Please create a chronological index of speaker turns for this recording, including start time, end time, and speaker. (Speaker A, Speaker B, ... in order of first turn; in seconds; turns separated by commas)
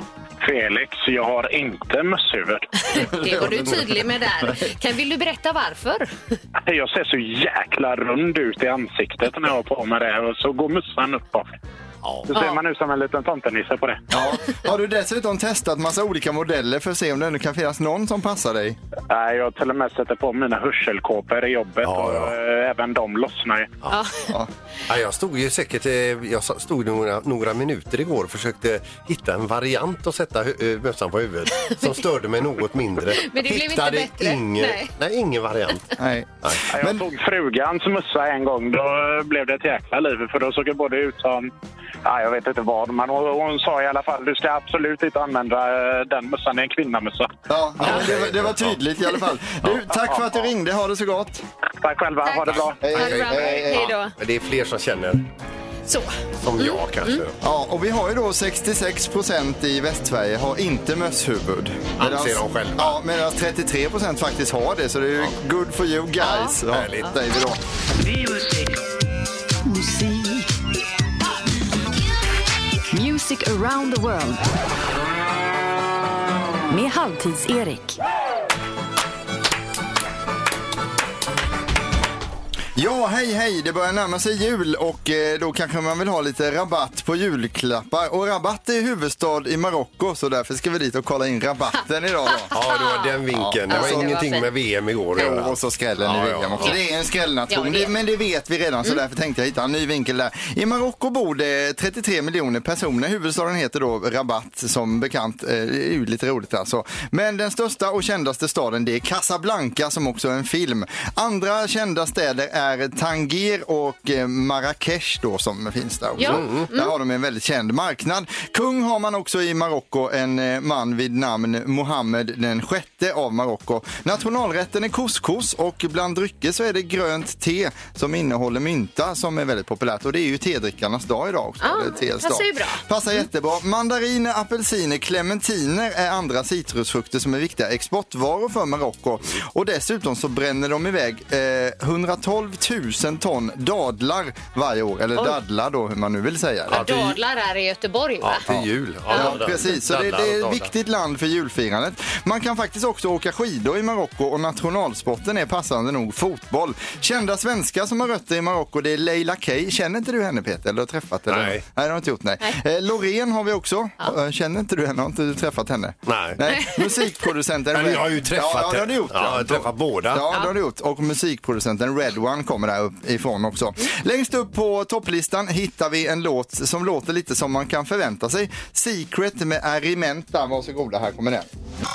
Speaker A: 0.4-2.7, Speaker B: 2.9-6.3, Speaker C: 3.0-4.7, Speaker A: 6.7-11.6, Speaker D: 12.0-12.3, Speaker A: 12.3-14.1, Speaker B: 12.3-12.6, Speaker C: 14.1-18.8, Speaker A: 19.1-23.7, Speaker D: 21.8-22.4, Speaker B: 23.9-24.3, Speaker D: 24.9-35.9, Speaker B: 31.6-31.9, Speaker B: 33.1-34.9, Speaker C: 36.0-37.0, Speaker A: 36.7-41.5, Speaker A: 42.0-47.3, Speaker C: 47.5-51.4, Speaker D: 47.8-48.8, Speaker D: 49.6-50.5, Speaker A: 51.8-52.9, Speaker B: 52.2-54.1, Speaker C: 52.8-53.9, Speaker D: 52.9-55.3, Speaker B: 55.9-57.2, Speaker D: 56.4-57.4, Speaker C: 57.4-67.6, Speaker D: 62.0-63.0, Speaker B: 66.2-66.6, Speaker D: 66.7-67.1, Speaker E: 69.6-70.4, Speaker E: 72.9-74.5, Speaker E: 76.7-78.0, Speaker C: 82.8-92.5, Speaker B: 92.2-94.5, Speaker D: 92.5-96.8, Speaker C: 93.3-94.2, Speaker C: 95.1-146.9, Speaker B: 97.5-97.9, Speaker B: 116.2-116.9, Speaker D: 116.2-116.7, Speaker B: 131.6-133.2, Speaker B: 146.7-148.4, Speaker D: 146.7-147.2, Speaker D: 148.2-150.7, Speaker C: 148.5-181.5, Speaker B: 149.1-149.4, Speaker D: 161.3-161.6, Speaker D: 166.1-166.4, Speaker B: 166.5-167.1, Speaker D: 167.7-170.2